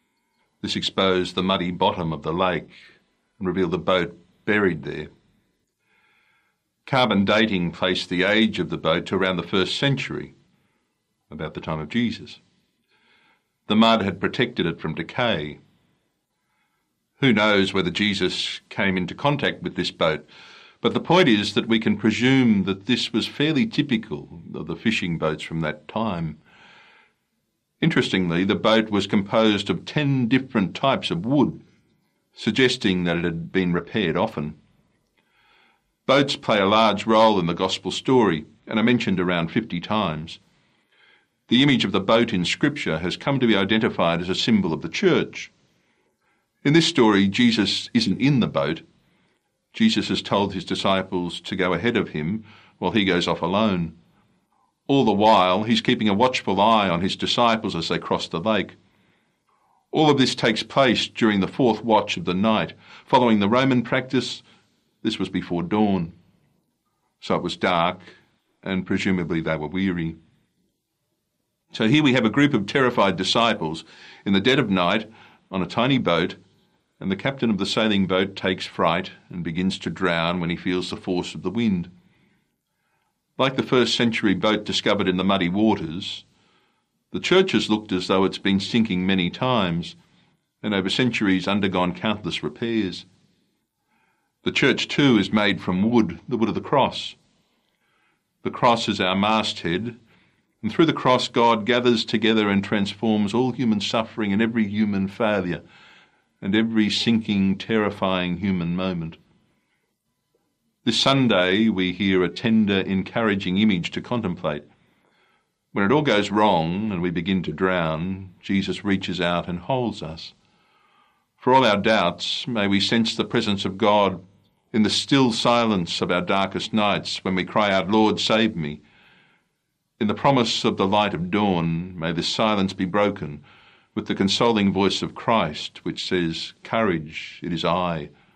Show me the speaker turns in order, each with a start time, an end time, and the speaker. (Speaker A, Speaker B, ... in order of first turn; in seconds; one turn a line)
Speaker A: 0.6-2.8
Speaker A: 3.4-5.1
Speaker A: 6.9-10.3
Speaker A: 11.3-12.4
Speaker A: 13.7-15.6
Speaker A: 17.2-20.3
Speaker A: 20.8-26.4
Speaker A: 27.8-31.6
Speaker A: 32.4-34.6
Speaker A: 36.1-40.4
Speaker A: 41.5-45.5
Speaker A: 46.6-48.8
Speaker A: 49.7-53.9
Speaker A: 54.9-58.8
Speaker A: 59.9-64.4
Speaker A: 65.0-66.1
Speaker A: 67.2-68.1
Speaker A: 68.6-70.2
Speaker A: 71.7-76.4
Speaker A: 77.0-81.9
Speaker A: 83.4-86.2
Speaker A: 87.1-90.0
Speaker A: 90.6-93.1
Speaker A: 94.4-97.2
Speaker A: 98.4-100.0
Speaker A: 100.6-105.6
Speaker A: 106.4-109.2
Speaker A: 110.8-114.7
Speaker A: 115.7-120.3
Speaker A: 121.4-124.2
Speaker A: 124.7-128.8
Speaker A: 130.0-133.4
Speaker A: 133.9-138.1